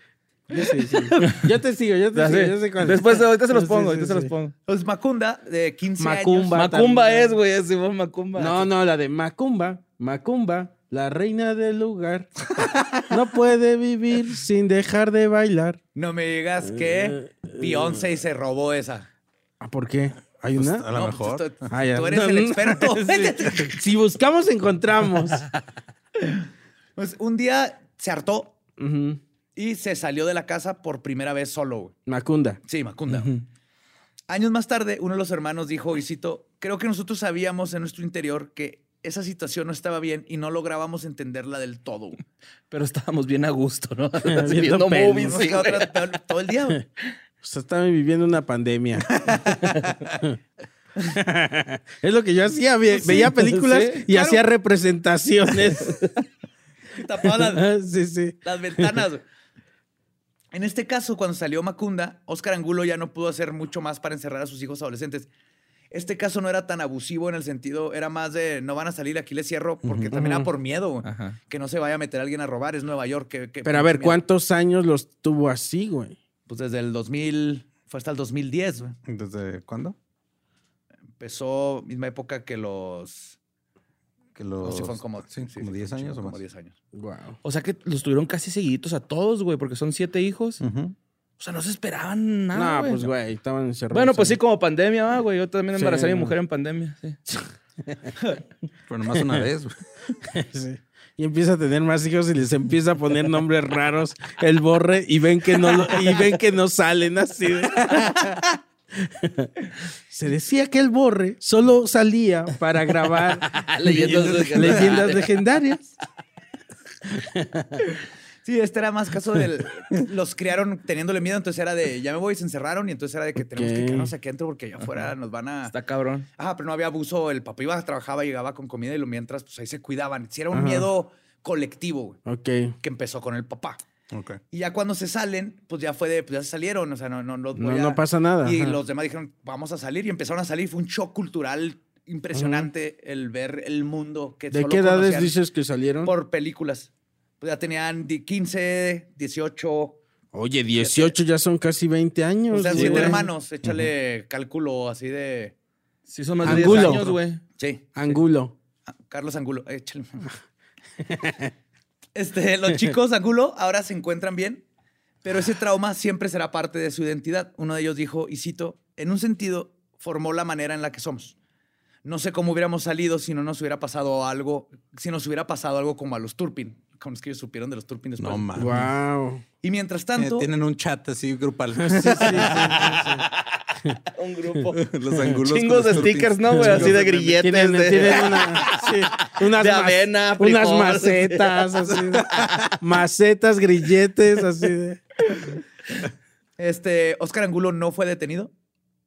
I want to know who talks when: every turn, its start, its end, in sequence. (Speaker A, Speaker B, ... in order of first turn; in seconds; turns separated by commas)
Speaker A: 0.5-4.3, Speaker B: 0.6-1.5, Speaker B: 2.1-4.5, Speaker C: 4.7-6.6, Speaker A: 6.0-7.4, Speaker B: 6.5-8.7, Speaker A: 8.3-12.3, Speaker D: 12.6-13.0, Speaker A: 13.1-15.8, Speaker C: 15.9-19.1, Speaker A: 16.6-18.0, Speaker A: 19.6-20.9, Speaker D: 20.6-21.7, Speaker C: 20.9-23.8, Speaker A: 21.7-25.5, Speaker C: 27.0-28.5, Speaker A: 28.8-29.2, Speaker C: 29.6-31.9, Speaker A: 32.1-32.6, Speaker C: 32.6-33.3, Speaker B: 33.1-33.4, Speaker C: 34.3-42.2, Speaker B: 42.7-46.0, Speaker A: 44.2-45.5, Speaker C: 45.2-46.8, Speaker A: 47.4-49.5, Speaker A: 51.0-56.1, Speaker B: 53.0-54.0, Speaker C: 54.1-54.4, Speaker C: 56.9-57.7, Speaker A: 57.2-59.0, Speaker C: 58.4-59.2, Speaker C: 60.5-65.3, Speaker C: 65.9-74.2, Speaker D: 69.8-70.1, Speaker A: 70.1-70.5, Speaker B: 71.0-71.4, Speaker A: 73.6-76.2, Speaker C: 76.5-79.0, Speaker D: 79.0-80.0, Speaker C: 81.2-83.4, Speaker D: 84.3-86.4, Speaker C: 84.6-86.7, Speaker A: 86.9-87.4, Speaker B: 87.4-90.6, Speaker D: 90.6-90.9, Speaker B: 91.4-93.1, Speaker A: 92.5-94.4, Speaker B: 93.9-97.2, Speaker A: 95.7-96.3, Speaker A: 97.3-98.1, Speaker D: 98.9-100.1, Speaker A: 99.1-99.5, Speaker A: 100.2-108.4, Speaker B: 105.7-106.2, Speaker A: 108.9-109.5, Speaker A: 110.1-115.9, Speaker B: 113.4-115.3, Speaker D: 114.4-115.0, Speaker A: 117.0-117.8, Speaker C: 118.4-125.7, Speaker A: 123.4-124.1, Speaker B: 125.7-126.3, Speaker C: 126.4-132.2, Speaker A: 130.5-130.9, Speaker A: 132.2-132.7, Speaker C: 132.8-133.8, Speaker D: 134.1-134.4, Speaker C: 134.5-145.4, Speaker A: 137.5-138.8, Speaker A: 142.3-142.7, Speaker A: 144.5-146.1, Speaker C: 146.0-150.0, Speaker A: 150.3-153.3, Speaker C: 150.8-151.1, Speaker C: 152.5-155.5, Speaker B: 152.7-153.2, Speaker B: 156.1-157.4, Speaker A: 156.4-157.2, Speaker C: 156.6-156.9, Speaker C: 157.6-157.9, Speaker A: 157.9-158.5, Speaker C: 159.1-160.3, Speaker A: 161.0-161.5, Speaker C: 162.1-164.6, Speaker C: 165.2-171.3, Speaker C: 172.0-178.6, Speaker D: 178.2-178.8, Speaker A: 178.6-179.4, Speaker C: 179.6-180.5, Speaker D: 180.2-183.1, Speaker A: 181.7-183.3, Speaker B: 182.8-184.9, Speaker D: 184.8-187.3, Speaker B: 185.4-191.8, Speaker A: 186.0-195.0, Speaker D: 192.1-192.8, Speaker C: 196.6-198.5